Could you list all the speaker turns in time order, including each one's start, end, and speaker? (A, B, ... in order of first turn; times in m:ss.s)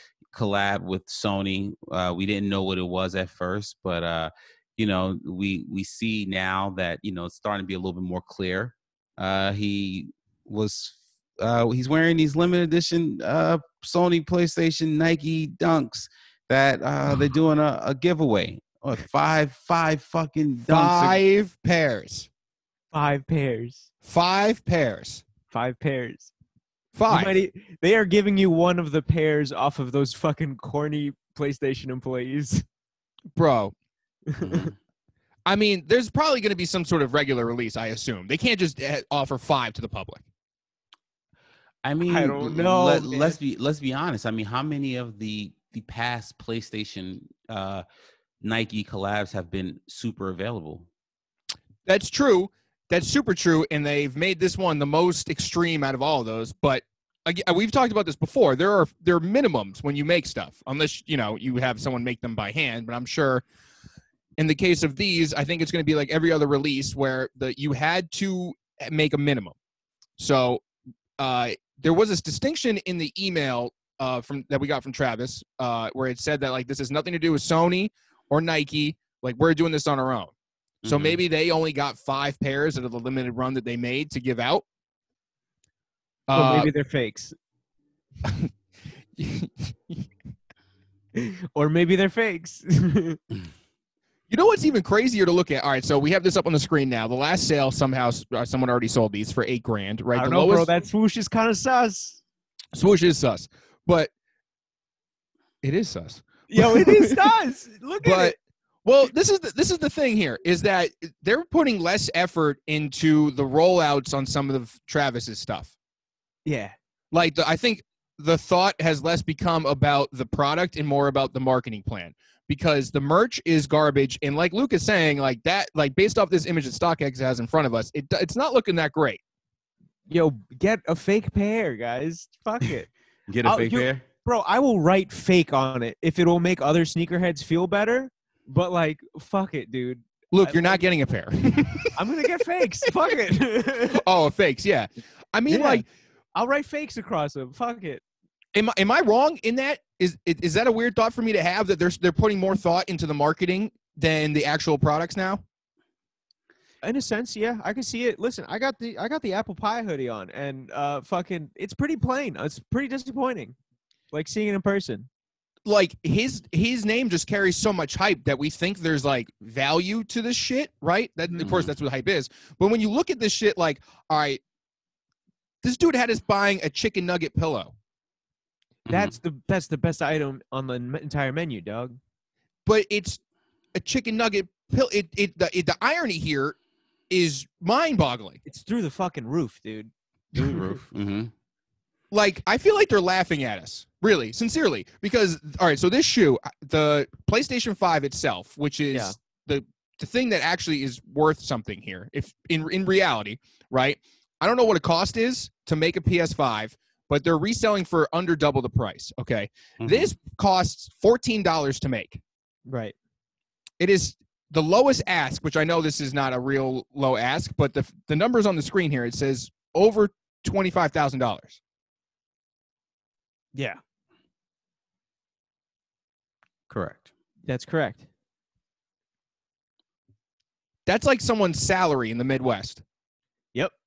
0:00.3-0:21.2 A
0:20.7-0:22.3 B
0:22.9-0:23.9 C
0:24.0-0:25.2 B
0:25.5-0:26.3 C
0:26.9-0:27.3 B
0:27.1-0:32.6 C
0:33.3-0:33.7 B
0:34.3-0:34.7 C
0:34.4-0:34.7 A
0:35.4-0:40.2 B
0:41.8-0:47.8 A
0:42.0-0:43.4 C
0:48.4-0:50.9 A
0:51.8-1:03.4 B
1:04.4-1:09.5 B
1:10.2-1:10.6 B
1:11.2-1:20.3 B
1:20.8-1:21.2 A
1:20.8-1:24.6 B
1:26.3-1:26.7 B
1:26.3-1:27.4 C
1:28.2-1:28.5 B
1:29.2-1:30.1 B
1:31.1-1:33.2 C
1:34.3-1:40.7 B
1:40.1-1:42.2 C
1:42.7-1:44.1 B
1:45.6-1:47.3 B
1:46.5-1:48.3 C
1:48.0-1:55.7 B
1:56.4-1:56.7 C
1:57.1-2:09.2 B
2:10.1-2:12.9 C
2:13.3-2:14.0 A
2:13.4-2:20.8 C
2:20.3-2:21.9 B
2:21.9-2:24.0 C
2:23.9-2:25.8 B
2:25.5-2:28.0 C
2:28.5-2:35.4 B
2:36.8-2:43.6 C
2:44.1-2:45.1 C
2:45.6-2:54.4 B
2:51.4-2:51.7 A
2:55.6-2:57.7 B
2:58.9-2:59.1 A
2:58.9-3:02.0 C
3:02.6-3:03.2 B
3:03.7-3:06.6 B
3:07.1-3:08.4 B
3:08.4-3:09.9 C
3:10.3-3:11.3 A
3:12.1-3:32.2 B
3:29.8-3:30.1 A
3:32.6-3:32.9 C
3:33.8-3:41.6 B
3:43.5-3:43.8 C
3:46.7-3:47.1 A
3:47.5-3:48.1 C
3:50.8-3:52.8 B